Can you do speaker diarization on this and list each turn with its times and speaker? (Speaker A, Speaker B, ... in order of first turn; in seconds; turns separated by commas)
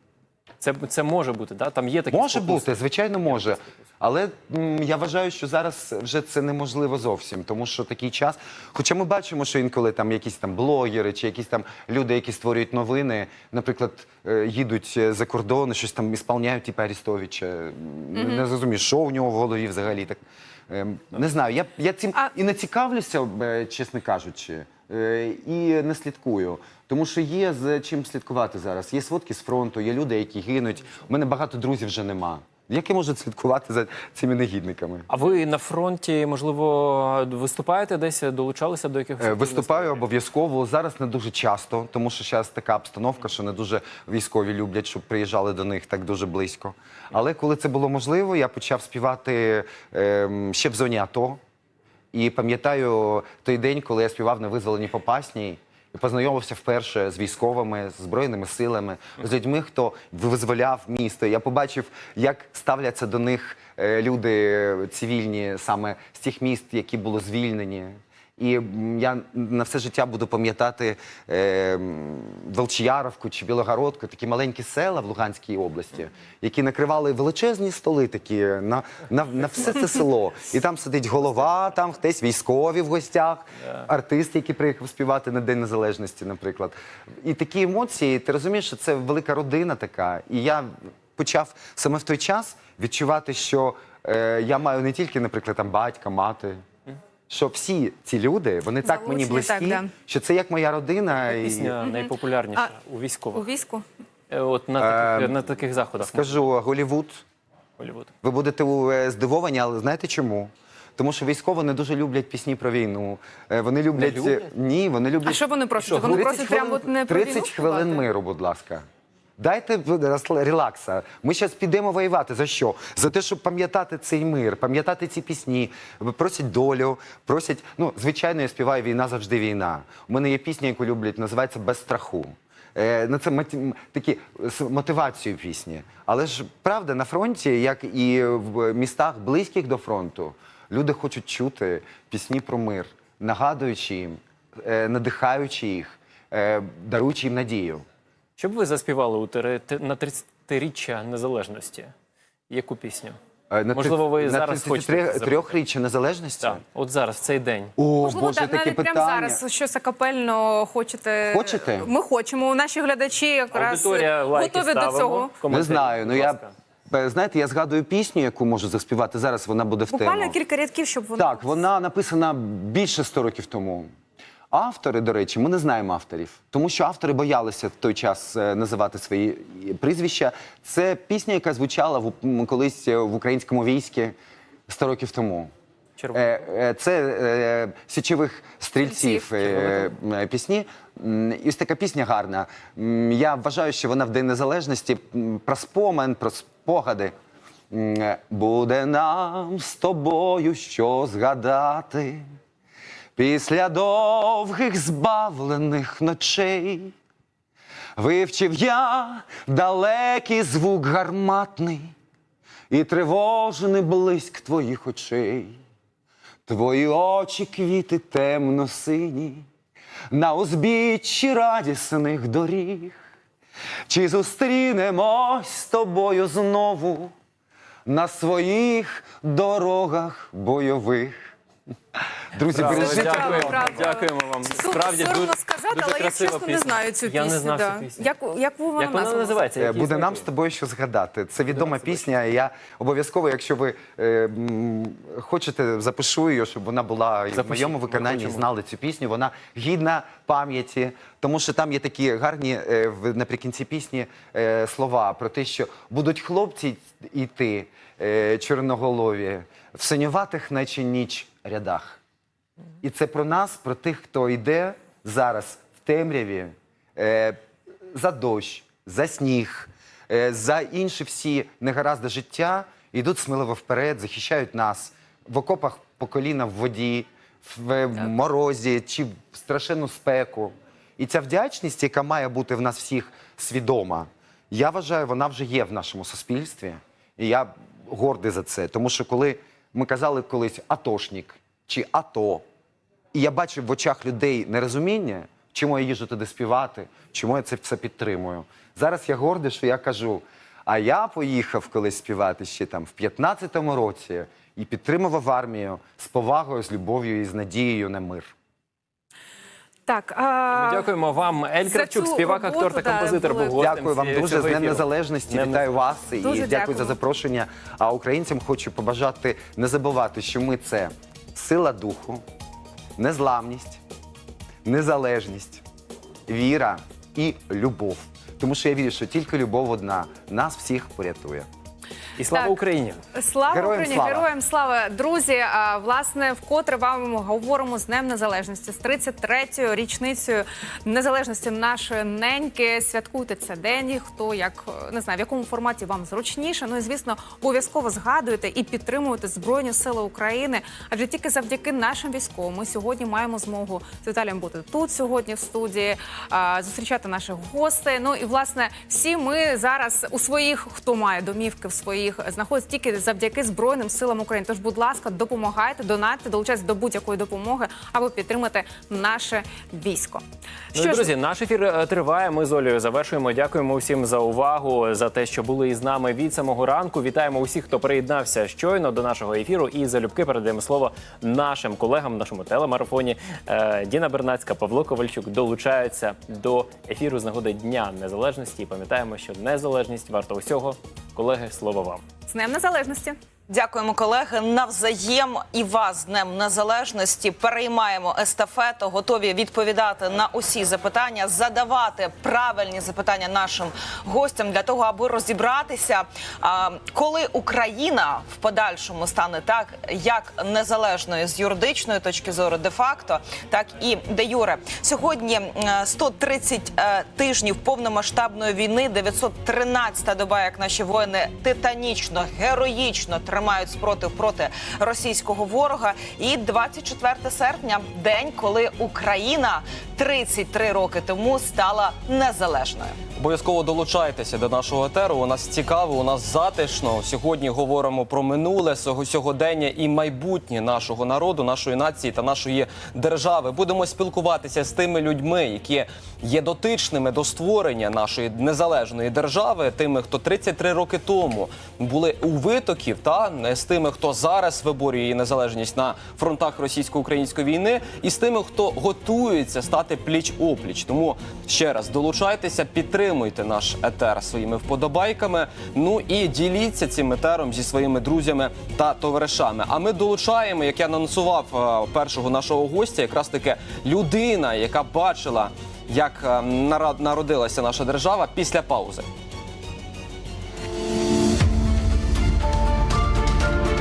Speaker A: 0.6-3.7, Speaker B: 2.1-35.1, Speaker C: 18.1-18.4, Speaker A: 35.1-40.0, Speaker B: 39.2-51.4, Speaker B: 52.1-96.6, Speaker B: 97.3-101.8, Speaker C: 98.8-99.9, Speaker A: 101.2-103.5, Speaker C: 101.8-102.7, Speaker C: 103.3-103.8, Speaker A: 104.3-106.4, Speaker B: 104.8-105.5, Speaker B: 106.0-107.2, Speaker A: 107.8-108.1, Speaker B: 108.2-115.4, Speaker A: 114.0-114.5, Speaker C: 115.2-118.0, Speaker A: 115.8-116.4, Speaker B: 116.0-118.8, Speaker B: 119.4-147.8, Speaker A: 148.4-151.9, Speaker A: 152.5-153.2, Speaker B: 153.5-156.6, Speaker A: 153.7-155.5, Speaker A: 156.4-157.8, Speaker B: 157.8-159.4, Speaker C: 158.0-165.3, Speaker B: 161.2-161.9, Speaker A: 163.5-166.5, Speaker B: 165.5-170.3, Speaker C: 169.9-171.7, Speaker B: 171.2-173.9, Speaker B: 174.5-184.2, Speaker B: 184.7-185.5, Speaker A: 186.0-186.3, Speaker B: 186.1-197.1, Speaker C: 188.8-189.2, Speaker A: 189.2-189.9, Speaker B: 197.7-202.3, Speaker B: 203.2-206.9, Speaker B: 207.9-211.9, Speaker B: 212.7-215.6, Speaker B: 216.5-219.5, Speaker B: 220.1-223.0, Speaker B: 223.9-227.1, Speaker B: 227.8-231.3, Speaker B: 232.3-233.9, Speaker A: 232.4-238.1, Speaker C: 232.6-239.5, Speaker A: 238.8-240.2, Speaker B: 239.6-262.0, Speaker A: 241.5-242.0, Speaker A: 247.3-248.4, Speaker B: 262.8-267.4, Speaker B: 267.9-292.4, Speaker B: 293.1-308.3, Speaker C: 309.9-310.9, Speaker A: 310.5-315.8, Speaker C: 311.6-313.6, Speaker B: 313.6-322.2, Speaker C: 316.2-317.0, Speaker B: 323.0-323.8, Speaker B: 324.6-325.6, Speaker B: 326.3-331.5, Speaker A: 332.2-333.0, Speaker C: 332.3-332.6, Speaker C: 333.1-370.2, Speaker B: 333.5-334.3, Speaker C: 370.7-371.1, Speaker A: 370.7-392.0, Speaker C: 392.3-393.2, Speaker D: 393.5-433.0, Speaker E: 433.2-479.1